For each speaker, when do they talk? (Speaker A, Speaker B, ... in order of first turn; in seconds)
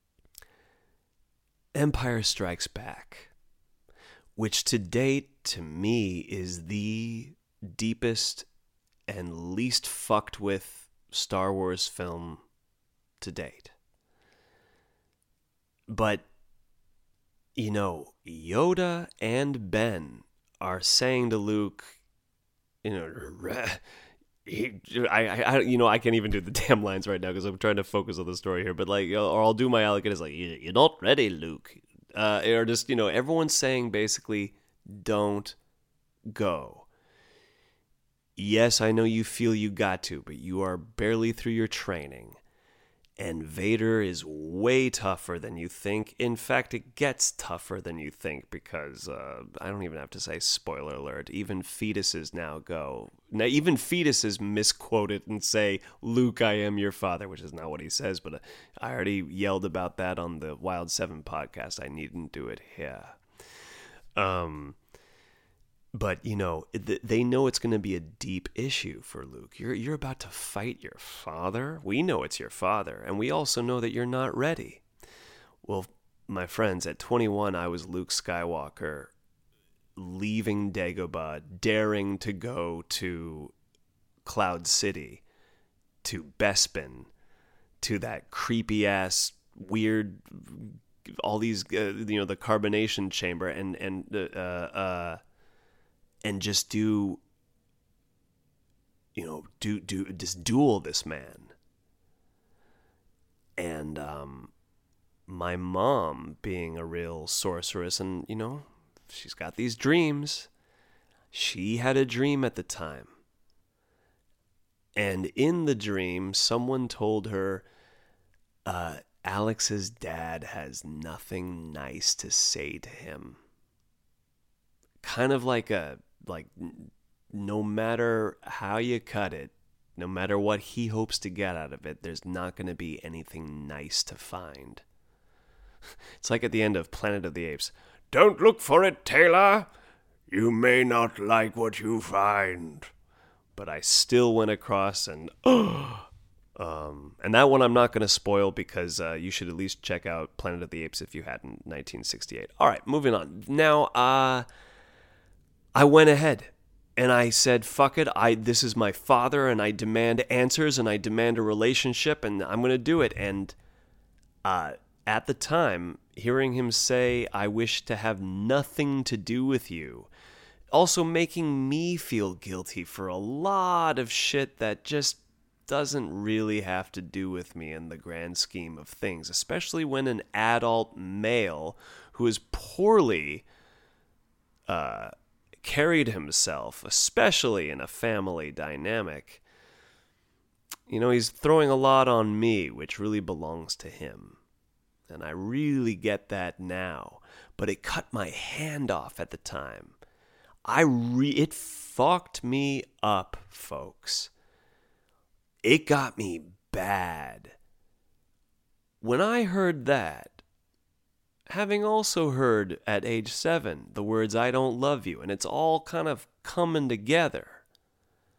Speaker A: 1.7-3.3, 4.3-8.5, 9.1-12.4, 13.2-13.7, 15.9-16.2, 17.5-22.0, 22.8-23.8, 24.4-35.5, 36.3-36.9, 38.4-42.4, 43.2-63.2, 64.2-64.8, 65.9-74.8, 75.6-79.1, 80.0-83.5, 84.2-85.2, 86.0-87.1, 87.8-95.2, 96.2-97.2, 99.1-101.5, 103.6-104.5, 105.3-110.5, 111.3-113.1, 114.9-117.7, 118.6-123.4, 125.0-134.8, 136.2-139.7, 140.3-142.9, 143.5-154.5, 155.7-163.6, 164.4-170.1, 170.7-183.4, 184.7-189.4, 190.9-194.4, 195.1-200.0, 200.6-204.3, 205.6-207.5, 209.0-210.4, 211.5-217.6